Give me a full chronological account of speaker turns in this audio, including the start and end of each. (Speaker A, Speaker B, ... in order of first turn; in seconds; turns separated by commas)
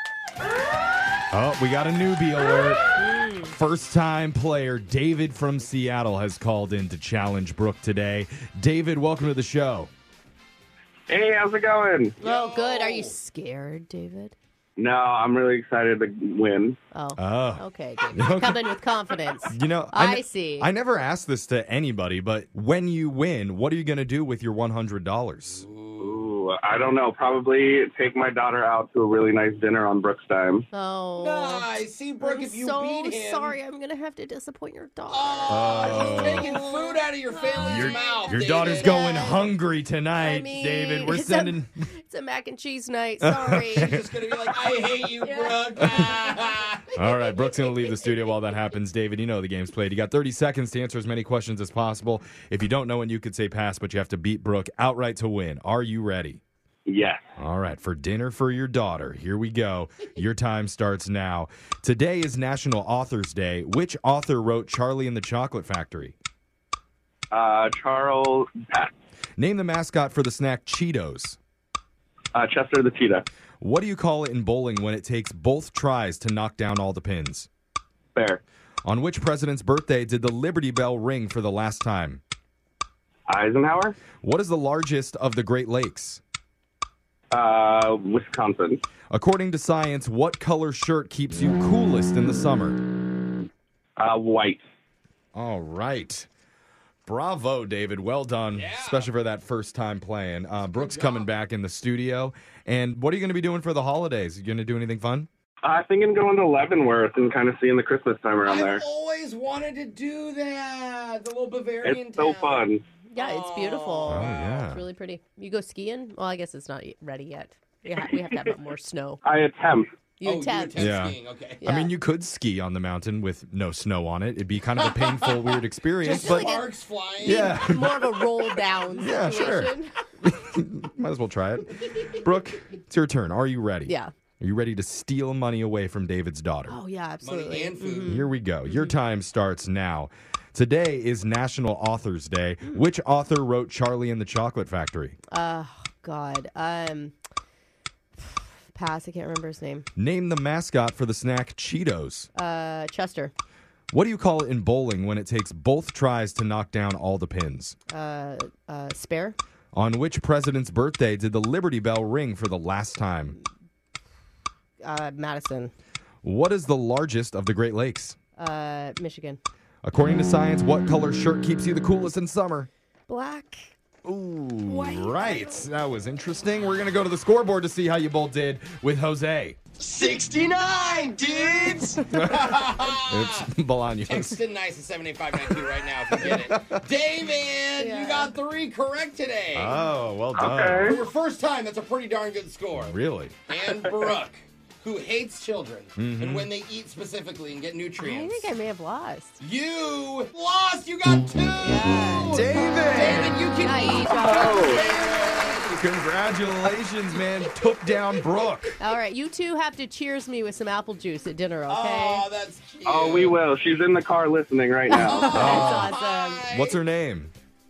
Speaker A: 1.3-9.9, Speaker B: 2.9-3.5, Speaker C: 11.1-12.2, Speaker D: 12.2-13.2, Speaker B: 12.2-14.3, Speaker C: 14.8-16.8, Speaker B: 16.9-20.7, Speaker A: 17.2-17.6, Speaker A: 18.1-18.7, Speaker A: 19.5-25.6, Speaker D: 25.6-26.3, Speaker C: 26.0-30.6, Speaker B: 30.7-31.7, Speaker D: 31.2-33.5, Speaker B: 32.2-39.5, Speaker D: 35.1-39.2, Speaker A: 35.5-36.5, Speaker A: 37.6-41.7, Speaker B: 40.1-44.0, Speaker A: 43.2-44.0, Speaker D: 43.7-46.8, Speaker B: 45.1-46.6, Speaker A: 46.9-56.4, Speaker C: 56.9-57.2, Speaker A: 57.4-66.1, Speaker C: 67.3-68.9, Speaker A: 69.4-71.4, Speaker C: 72.3-73.2, Speaker A: 73.6-77.5, Speaker C: 78.2-78.4, Speaker A: 78.8-82.2, Speaker C: 83.3-84.0, Speaker A: 84.2-86.2, Speaker C: 87.3-88.8, Speaker A: 89.1-92.8, Speaker C: 94.0-94.6, Speaker A: 95.3-96.3, Speaker A: 97.0-105.3, Speaker D: 98.5-99.1, Speaker D: 100.8-101.3, Speaker C: 105.6-108.8, Speaker D: 108.4-112.6, Speaker C: 111.8-112.8, Speaker B: 112.2-112.5, Speaker B: 113.0-119.2, Speaker D: 113.2-114.6, Speaker A: 114.1-114.8, Speaker C: 119.2-119.9, Speaker B: 120.2-120.9, Speaker D: 120.2-121.6, Speaker A: 120.8-126.5, Speaker B: 121.6-121.9, Speaker D: 125.0-125.3, Speaker D: 126.0-127.5, Speaker B: 126.2-126.7, Speaker A: 127.2-128.0, Speaker B: 127.2-129.9, Speaker A: 129.0-136.8, Speaker B: 133.9-134.1, Speaker B: 136.7-138.9, Speaker D: 137.2-138.2, Speaker A: 138.1-145.2, Speaker B: 145.3-147.2, Speaker B: 148.2-149.9, Speaker A: 149.9-152.3, Speaker B: 152.3-153.3, Speaker A: 153.9-157.8, Speaker B: 157.9-159.4, Speaker A: 159.7-163.4, Speaker B: 164.8-165.7, Speaker A: 166.2-168.2, Speaker B: 168.3-169.4, Speaker A: 169.8-172.7, Speaker B: 173.1-173.7, Speaker A: 174.0-179.6, Speaker B: 174.7-175.7, Speaker D: 179.8-183.5, Speaker A: 182.0-184.4, Speaker D: 184.0-189.8, Speaker A: 186.1-186.8, Speaker B: 187.8-188.3, Speaker A: 189.5-190.9, Speaker C: 190.4-191.0, Speaker D: 190.8-192.9, Speaker A: 192.8-193.9, Speaker D: 193.5-198.5, Speaker A: 195.9-196.5, Speaker B: 198.0-199.4, Speaker D: 199.4-205.8, Speaker B: 201.6-202.5, Speaker A: 202.2-203.4, Speaker B: 203.6-205.6, Speaker C: 204.1-204.9, Speaker A: 205.8-208.8, Speaker D: 207.6-207.9, Speaker B: 208.8-212.2, Speaker D: 211.7-213.4, Speaker C: 212.8-215.6, Speaker B: 214.9-216.4, Speaker D: 214.9-216.8, Speaker A: 215.2-215.9, Speaker A: 216.5-217.3